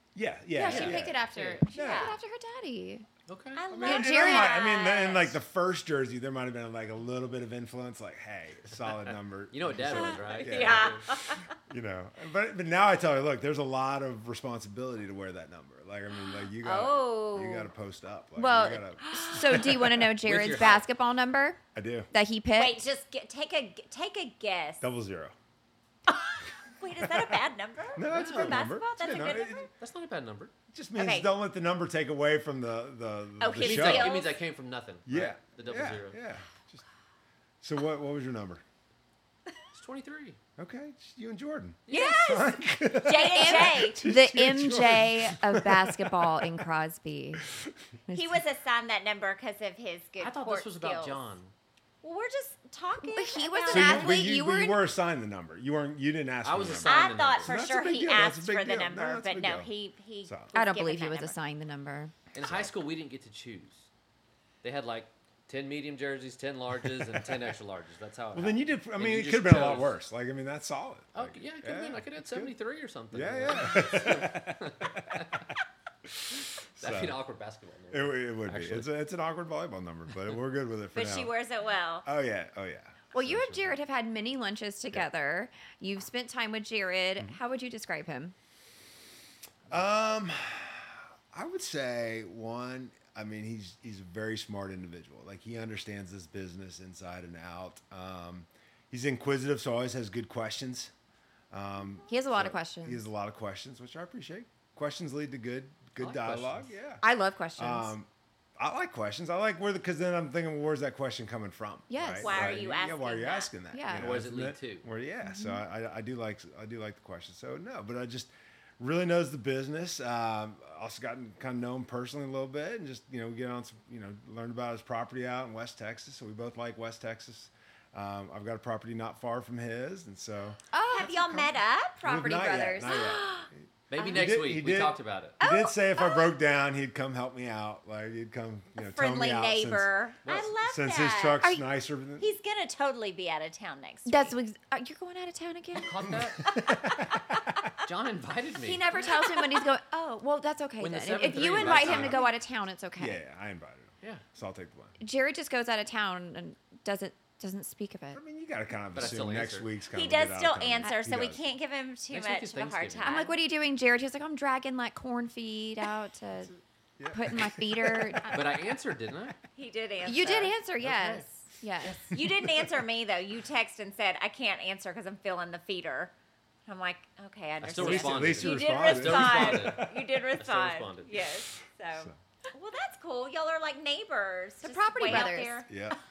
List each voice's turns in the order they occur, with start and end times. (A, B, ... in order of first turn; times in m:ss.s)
0:00.1-0:01.2 A
0:00.5-0:03.1 B
0:00.6-0:01.6 C
0:01.7-0:02.2 A
0:01.7-0:02.1 D
0:03.3-0:03.6 C
0:03.6-0:05.4 D
0:03.7-0:20.2 A
0:03.8-0:04.6 B
0:09.5-0:11.1 C
0:09.8-0:11.5 D
0:16.6-0:17.7 D
0:18.4-0:21.6 B
0:19.0-0:19.7 D
0:20.2-0:20.8 C
0:21.7-0:22.1 A
0:22.1-0:22.8 B
0:22.6-0:24.9 D
0:24.8-0:25.4 A
0:26.1-0:29.7 D
0:27.0-0:27.4 A
0:27.9-0:29.7 A
0:28.1-0:29.3 C
0:29.8-0:30.5 C
0:30.7-0:34.2 A
0:31.0-0:31.3 D
0:33.4-0:34.4 D
0:33.6-0:36.2 C
0:35.1-0:36.8 A
0:37.6-0:38.6 A
0:39.7-0:40.4 C
0:40.6-0:46.6 A
0:41.9-0:42.2 C
0:41.9-0:44.0 D
0:43.1-0:47.4 B
0:47.5-0:47.7 A
0:48.1-0:48.4 B
0:48.1-0:51.2 D
0:50.2-0:51.5 C
0:52.0-0:54.2 D
0:53.0-0:54.8 B
0:53.7-0:59.7 A
0:56.4-0:57.6 C
0:56.8-1:01.4 D
1:00.3-1:00.5 A
1:00.5-1:02.1 B
1:02.3-1:03.9 C
1:02.4-1:02.7 A
1:04.6-1:10.0 C
1:08.3-1:12.5 A
1:11.1-1:15.5 C
1:13.1-1:15.3 A
1:16.1-1:17.2 A
1:16.8-1:18.9 C
1:17.9-1:21.3 A
1:21.0-1:22.1 D
1:22.0-1:23.8 A
1:23.1-1:28.4 B
1:29.7-1:40.9 A
1:41.5-1:47.0 A
1:42.1-1:43.0 B
1:46.0-1:46.7 C
1:47.0-1:47.9 B
1:47.6-2:13.5 A
1:51.9-1:52.4 B
1:52.2-1:53.5 D
1:53.7-1:54.2 B
1:53.9-1:54.9 C
1:55.2-1:55.6 B
2:10.7-2:11.4 B
2:10.9-2:12.2 D
2:12.0-2:13.0 B
2:12.8-2:14.2 D
2:13.9-2:15.4 C
2:14.1-2:19.9 A
2:15.4-2:16.3 D
2:18.8-2:21.5 D
2:20.2-2:20.5 C
2:20.6-2:22.3 A
2:22.2-2:24.3 D
2:24.1-2:26.2 B
2:25.8-2:26.6 C
2:26.1-2:27.7 A
2:27.8-2:28.9 C
2:28.6-2:33.2 B
2:29.0-2:29.6 D
2:30.8-2:32.2 C
2:31.6-2:32.2 A
2:33.0-2:35.0 A
2:35.0-2:38.2 B
2:38.1-2:41.4 A
2:38.9-2:39.7 C
2:39.9-2:43.4 D
2:42.1-2:43.2 C
2:43.0-2:46.5 B
2:47.0-2:48.4 A
2:47.1-2:48.4 B
2:48.3-2:49.4 C
2:49.6-2:50.6 D
2:50.0-2:52.1 B
2:50.8-2:51.2 C
2:52.1-2:52.7 A
2:52.1-2:56.1 D
2:56.7-3:06.0 D
2:57.6-3:01.3 C
2:57.7-3:00.1 A
3:04.6-3:05.6 B
3:05.7-3:06.0 A